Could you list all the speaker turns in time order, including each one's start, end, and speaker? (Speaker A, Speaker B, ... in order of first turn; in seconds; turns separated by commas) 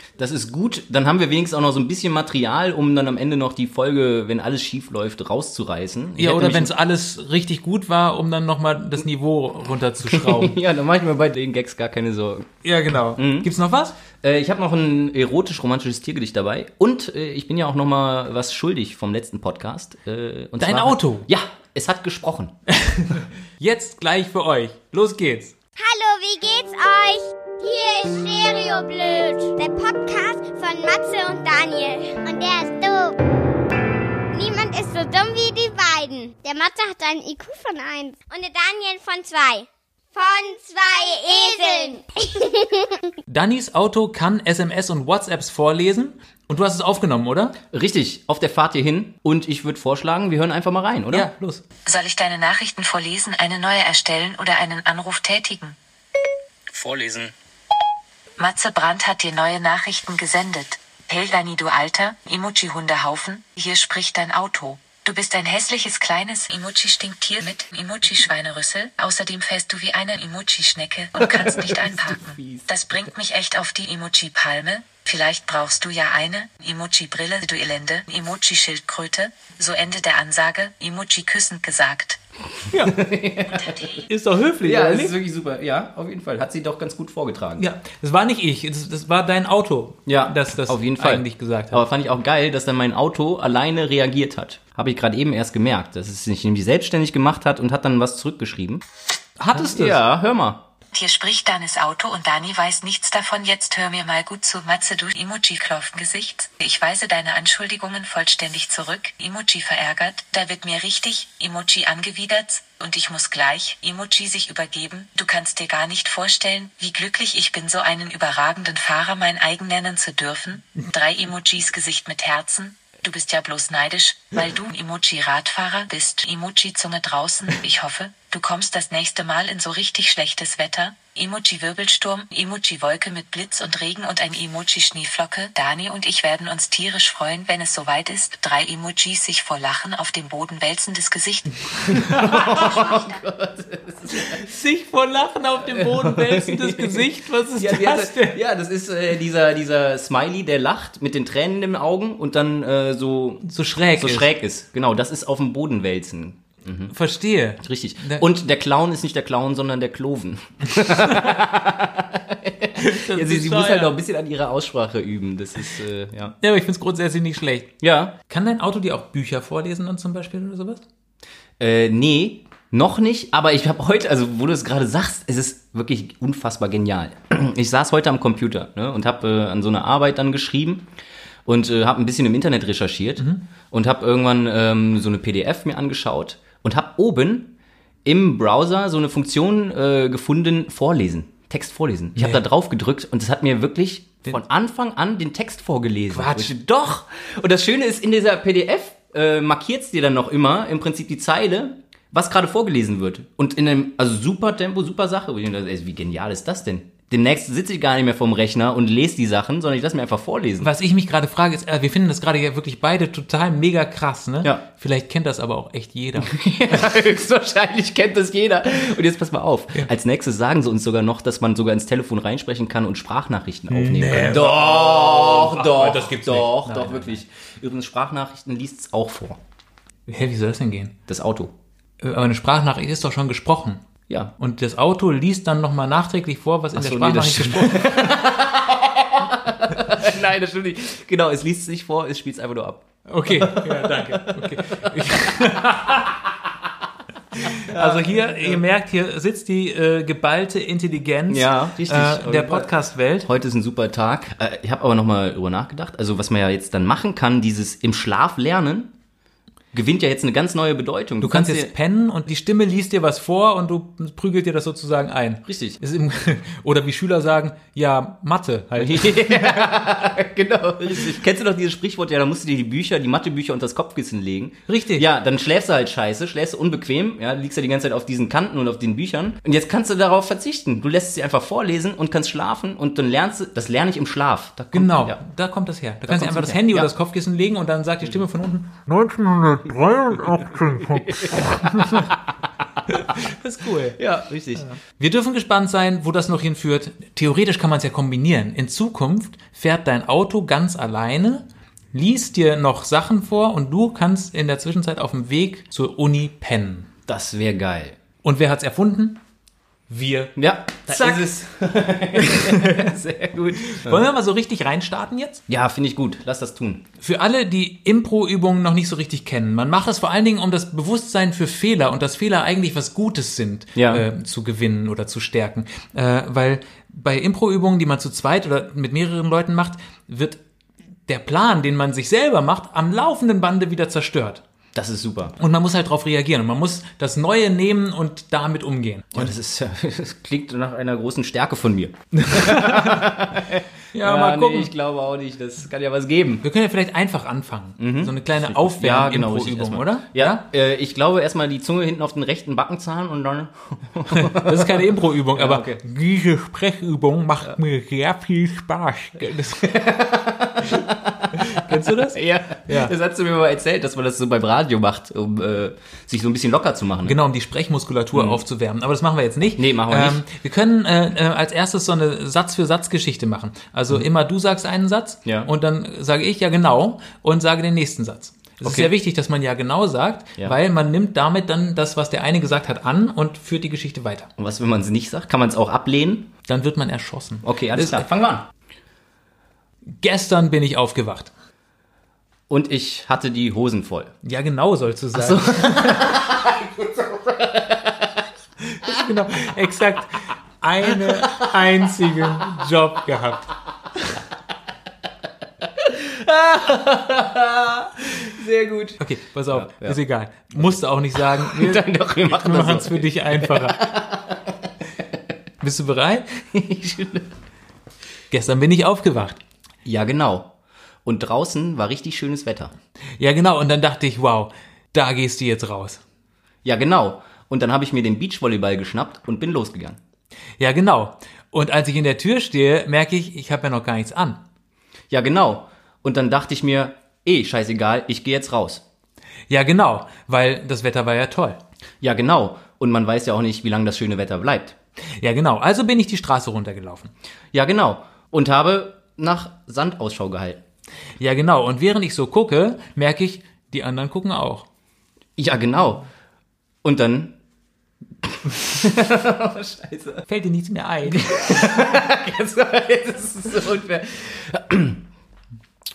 Speaker A: 0.2-6.7, Speaker B: 6.2-10.6, Speaker A: 10.0-12.5, Speaker B: 12.6-14.0, Speaker A: 13.2-13.5, Speaker A: 14.2-22.5, Speaker B: 20.6-21.3, Speaker B: 22.8-25.5, Speaker C: 25.8-33.2, Speaker C: 34.3-43.1, Speaker B: 43.3-47.6, Speaker A: 47.7-51.3, Speaker B: 51.1-51.6, Speaker D: 51.9-55.8, Speaker A: 56.7-57.3, Speaker D: 58.4-82.2, Speaker A: 71.2-72.7, Speaker B: 82.7-83.0, Speaker A: 82.7-84.0, Speaker D: 83.6-84.0, Speaker B: 84.1-85.1, Speaker A: 84.6-87.6, Speaker B: 87.6-91.8, Speaker A: 90.1-98.8, Speaker B: 99.4-100.0, Speaker A: 99.5-100.7, Speaker D: 100.9-141.9, Speaker B: 141.9-142.7, Speaker A: 141.9-144.4, Speaker B: 144.2-148.4, Speaker A: 145.6-156.9, Speaker B: 153.4-154.3, Speaker B: 156.9-158.2, Speaker A: 157.6-166.3, Speaker B: 162.8-163.9, Speaker B: 166.4-167.7, Speaker A: 167.8-168.2, Speaker B: 168.3-170.8, Speaker A: 171.6-180.9, Speaker A: 181.5-187.5, Speaker A: 188.1-210.7, Speaker B: 192.2-192.4, Speaker B: 196.1-196.5, Speaker B: 210.6-216.4, Speaker A: 216.2-229.4, Speaker B: 223.7-227.2, Speaker B: 230.1-230.9, Speaker A: 231.1-231.5, Speaker B: 232.0-233.8, Speaker B: 234.4-238.2, Speaker A: 236.7-245.5, Speaker B: 243.1-246.2, Speaker B: 247.3-253.3, Speaker A: 247.5-248.6, Speaker A: 251.3-258.9, Speaker A: 259.7-261.7, Speaker B: 261.2-269.8, Speaker A: 265.5-265.8, Speaker A: 268.8-285.2, Speaker B: 274.7-275.1, Speaker B: 284.7-292.2, Speaker A: 286.1-286.9, Speaker A: 290.8-292.1, Speaker B: 292.9-294.0, Speaker A: 294.0-294.7, Speaker B: 294.6-306.9, Speaker A: 307.1-308.0, Speaker B: 308.2-309.2, Speaker B: 309.9-311.3, Speaker A: 310.4-314.1, Speaker B: 312.1-312.9, Speaker B: 313.6-315.4, Speaker A: 315.5-316.9, Speaker B: 317.0-330.4, Speaker A: 323.8-324.1, Speaker B: 331.1-334.4, Speaker A: 334.7-335.4, Speaker B: 335.4-339.4, Speaker A: 339.1-346.4, Speaker B: 342.1-343.1, Speaker B: 343.9-344.7, Speaker B: 346.4-350.4, Speaker A: 347.8-355.8, Speaker B: 354.1-359.8, Speaker A: 359.6-367.2, Speaker B: 361.3-362.9, Speaker B: 367.0-384.3, Speaker A: 368.1-368.4, Speaker A: 369.6-370.2, Speaker A: 375.2-375.5, Speaker A: 378.6-378.9, Speaker A: 384.4-386.3, Speaker B: 386.5-388.1, Speaker A: 387.4-388.5, Speaker B: 390.0-391.3, Speaker A: 392.5-394.1, Speaker B: 394.2-396.2, Speaker A: 395.1-398.2, Speaker B: 398.7-403.5, Speaker A: 400.9-401.5, Speaker A: 405.8-410.0, Speaker B: 409.0-413.8, Speaker A: 410.6-414.6, Speaker B: 415.6-416.3, Speaker A: 416.5-417.3, Speaker B: 418.3-419.4, Speaker A: 419.9-420.5, Speaker A: 421.1-422.7, Speaker B: 423.2-426.0, Speaker A: 426.6-430.0, Speaker B: 430.6-434.4, Speaker A: 435.1-438.8, Speaker B: 439.5-441.6, Speaker A: 442.0-444.8, Speaker B: 445.2-447.1, Speaker A: 447.5-450.6, Speaker B: 451.2-454.7, Speaker A: 455.4-456.1, Speaker A: 456.8-457.3, Speaker A: 458.2-460.3, Speaker B: 460.3-461.8, Speaker A: 461.1-465.0